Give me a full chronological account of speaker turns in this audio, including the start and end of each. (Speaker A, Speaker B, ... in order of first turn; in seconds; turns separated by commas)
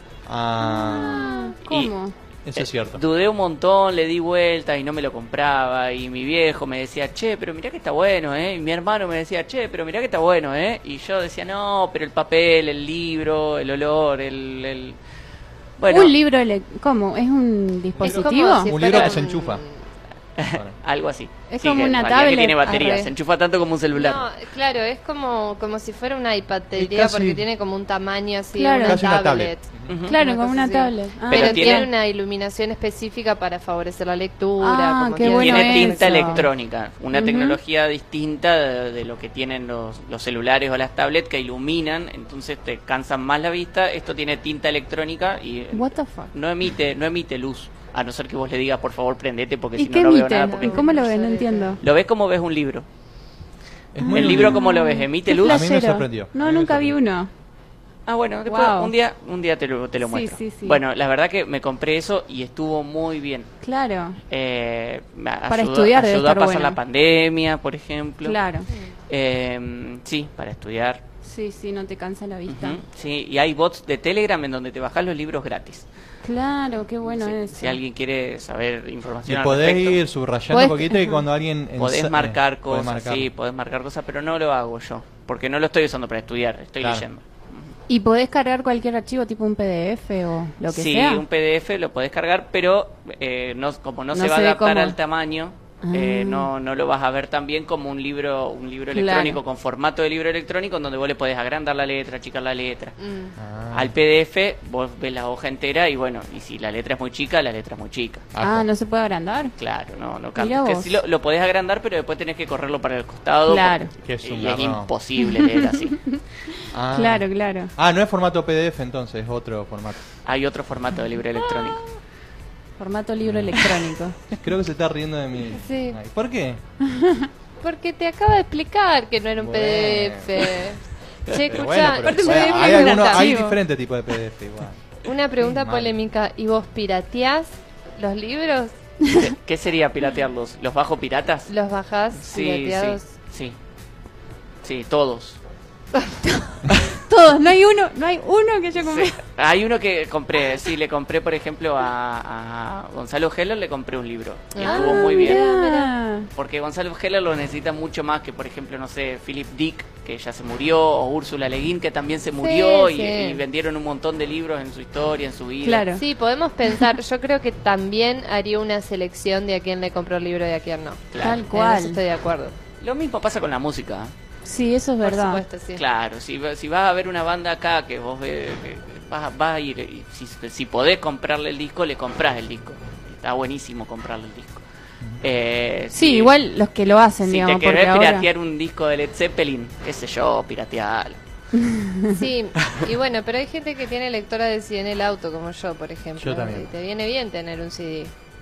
Speaker A: 0.2-1.3, Speaker B: 0.6-2.1, Speaker C: 1.6-1.9, Speaker A: 2.4-3.0, Speaker C: 2.5-15.0, Speaker C: 15.8-16.1, Speaker B: 15.9-18.7, Speaker A: 18.0-19.6, Speaker D: 18.0-19.8, Speaker C: 20.4-24.3, Speaker B: 21.5-22.6, Speaker D: 22.6-23.1, Speaker D: 23.9-36.4, Speaker A: 26.7-27.4, Speaker B: 28.5-29.0, Speaker A: 28.9-29.9, Speaker C: 29.9-30.1, Speaker B: 30.1-31.9, Speaker C: 31.3-31.9, Speaker B: 34.6-36.5, Speaker C: 35.2-51.0, Speaker B: 37.1-37.6, Speaker B: 45.7-46.3, Speaker B: 49.8-51.8, Speaker D: 50.5-51.8, Speaker C: 51.8-52.9, Speaker A: 53.9-54.7, Speaker B: 54.0-57.3, Speaker C: 54.1-55.7, Speaker A: 55.3-57.0, Speaker C: 58.0-63.5, Speaker B: 58.5-58.9, Speaker B: 60.0-60.8, Speaker B: 63.6-64.2, Speaker C: 64.3-68.4, Speaker B: 65.5-66.8, Speaker B: 68.2-68.7, Speaker D: 68.7-68.9, Speaker C: 69.1-71.0, Speaker B: 71.2-72.8, Speaker C: 72.5-75.8, Speaker B: 76.2-77.8, Speaker C: 77.0-80.0, Speaker A: 79.2-83.3, Speaker D: 80.5-81.2, Speaker C: 81.8-87.7, Speaker A: 86.8-87.0, Speaker B: 87.9-91.2, Speaker C: 90.7-103.0, Speaker B: 94.1-94.9, Speaker B: 95.8-96.5, Speaker B: 98.9-99.4, Speaker D: 103.0-103.3, Speaker A: 103.4-103.9, Speaker C: 103.7-108.2, Speaker A: 108.3-108.7, Speaker B: 108.4-109.5, Speaker C: 109.5-116.2, Speaker B: 110.4-111.0, Speaker B: 113.5-113.9, Speaker A: 114.0-114.9, Speaker A: 116.7-120.0, Speaker B: 116.9-117.7, Speaker C: 120.2-121.9, Speaker B: 122.8-124.2, Speaker A: 123.2-123.6, Speaker A: 124.4-126.6, Speaker D: 125.5-126.0, Speaker D: 127.6-133.4, Speaker A: 129.4-130.6, Speaker A: 131.4-134.8, Speaker B: 132.0-133.6, Speaker D: 135.0-138.7, Speaker A: 135.4-135.9, Speaker C: 139.1-141.5, Speaker D: 141.5-143.1, Speaker C: 142.1-143.6, Speaker C: 144.6-145.4, Speaker B: 147.1-149.2, Speaker C: 148.8-155.4, Speaker D: 154.5-155.8, Speaker B: 154.6-156.3, Speaker C: 156.3-165.9, Speaker D: 162.4-163.4, Speaker B: 165.6-166.0, Speaker D: 165.9-172.5, Speaker C: 171.1-171.4, Speaker B: 171.2-172.0, Speaker C: 172.8-174.1, Speaker B: 174.4-175.4, Speaker D: 175.0-175.8, Speaker C: 175.7-184.7, Speaker C: 185.2-186.3, Speaker B: 185.9-188.2, Speaker C: 187.2-191.2, Speaker B: 191.7-192.1, Speaker D: 192.1-198.1, Speaker A: 196.2-196.7